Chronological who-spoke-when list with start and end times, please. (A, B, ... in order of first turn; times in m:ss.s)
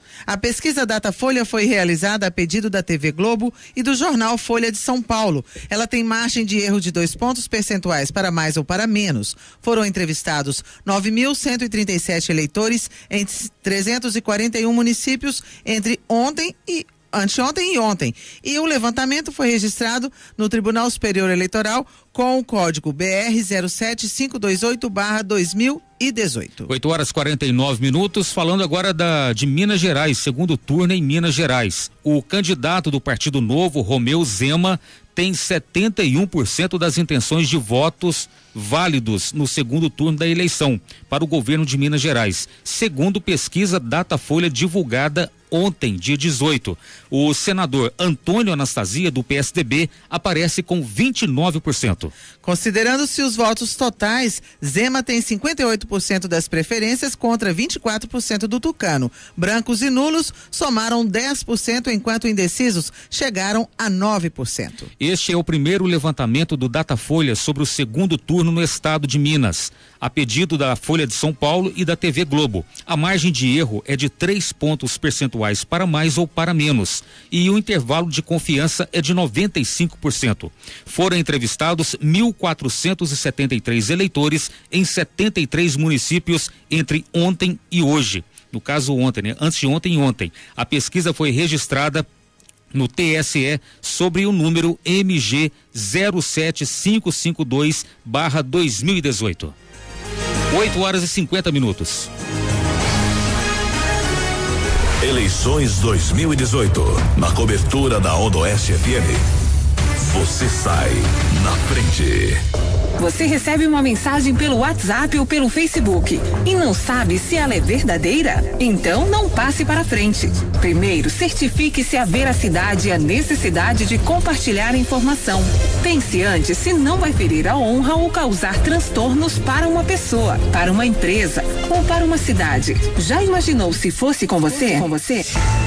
0:00.3-0:26.7 A
0:26.7-0:52.1 B
0:52.4-1:04.9 A
1:05.0-1:32.0 B
1:32.7-1:39.5 B
1:40.5-1:42.1 B
1:45.0-1:49.2 C
1:50.0-1:52.4 C
1:53.0-2:15.3 D